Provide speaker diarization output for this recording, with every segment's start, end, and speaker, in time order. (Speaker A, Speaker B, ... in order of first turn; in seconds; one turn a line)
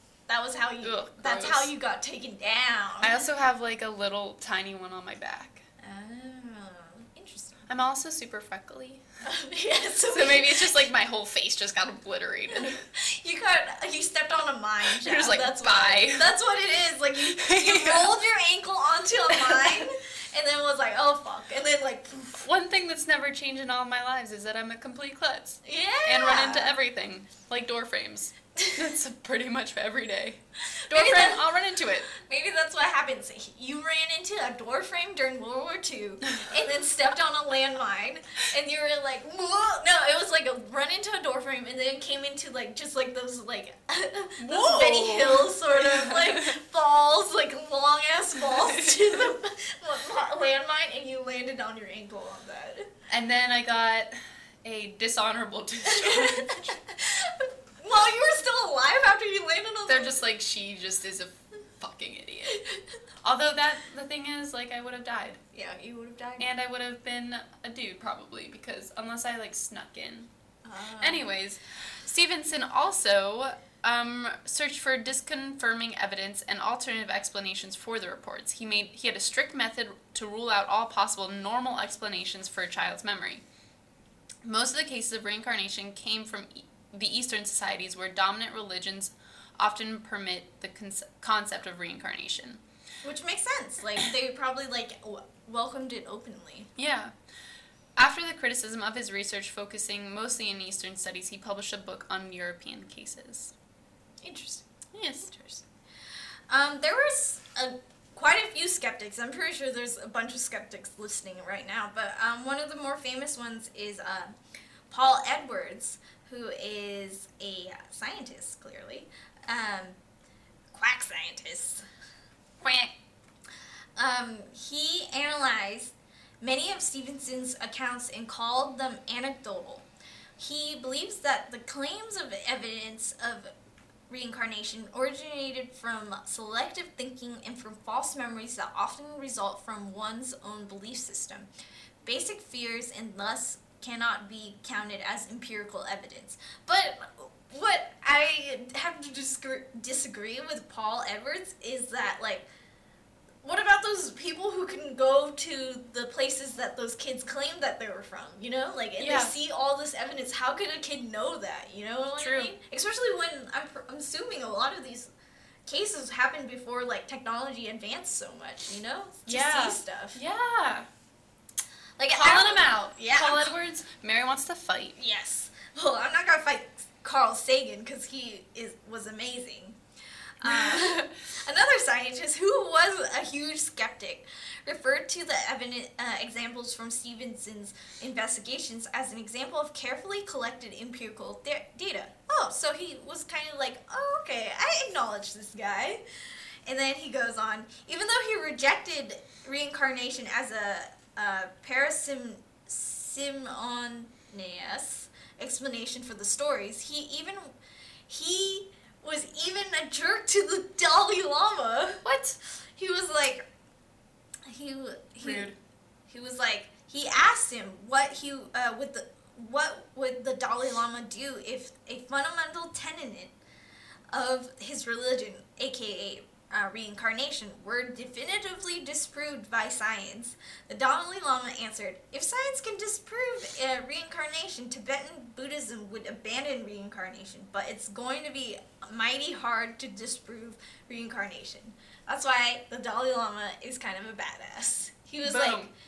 Speaker A: 0.3-3.2
Speaker B: 0.8-1.7
Speaker B: 3.0-5.6
Speaker A: 5.8-7.6
Speaker B: 7.7-9.0
Speaker A: 9.2-10.8
Speaker B: 10.1-12.8
Speaker A: 12.6-22.4
Speaker B: 14.8-16.3
Speaker B: 17.2-18.1
Speaker B: 19.3-19.9
Speaker B: 22.4-32.1
Speaker A: 25.6-26.8
Speaker A: 28.6-28.9
Speaker A: 30.7-31.4
Speaker A: 32.1-52.9
Speaker B: 44.4-46.6
Speaker B: 48.5-49.2
Speaker B: 53.1-54.1
Speaker B: 54.6-56.8
Speaker A: 55.9-60.2
Speaker B: 59.9-62.6
Speaker A: 62.5-62.8
Speaker B: 63.2-65.4
Speaker A: 65.5-66.5
Speaker B: 66.4-70.3
Speaker A: 70.6-71.2
Speaker B: 71.0-83.4
Speaker B: 84.4-92.6
Speaker A: 93.0-96.7
Speaker B: 96.8-97.1
Speaker B: 98.0-103.5
Speaker A: 104.2-104.7
Speaker B: 104.9-105.3
Speaker A: 105.2-105.6
Speaker A: 106.5-114.4
Speaker A: 114.9-120.0
Speaker A: 120.7-121.8
Speaker B: 122.6-122.9
Speaker A: 124.0-129.9
Speaker A: 130.4-133.5
Speaker A: 134.1-141.5
Speaker A: 142.1-152.5
Speaker A: 153.4-165.1
Speaker B: 159.0-159.3
Speaker B: 162.2-162.5
Speaker A: 165.7-170.2
Speaker B: 169.3-170.9
Speaker A: 172.0-173.5
Speaker B: 172.1-175.0
Speaker A: 175.0-179.8
Speaker A: 180.4-196.0
Speaker B: 180.4-181.0
Speaker A: 196.7-207.5
Speaker A: 208.1-212.1
Speaker B: 212.0-212.4
Speaker A: 212.8-213.4
Speaker A: 214.5-215.6
Speaker B: 215.2-215.6
Speaker A: 216.1-223.3
Speaker A: 224.1-245.7
Speaker B: 245.2-245.7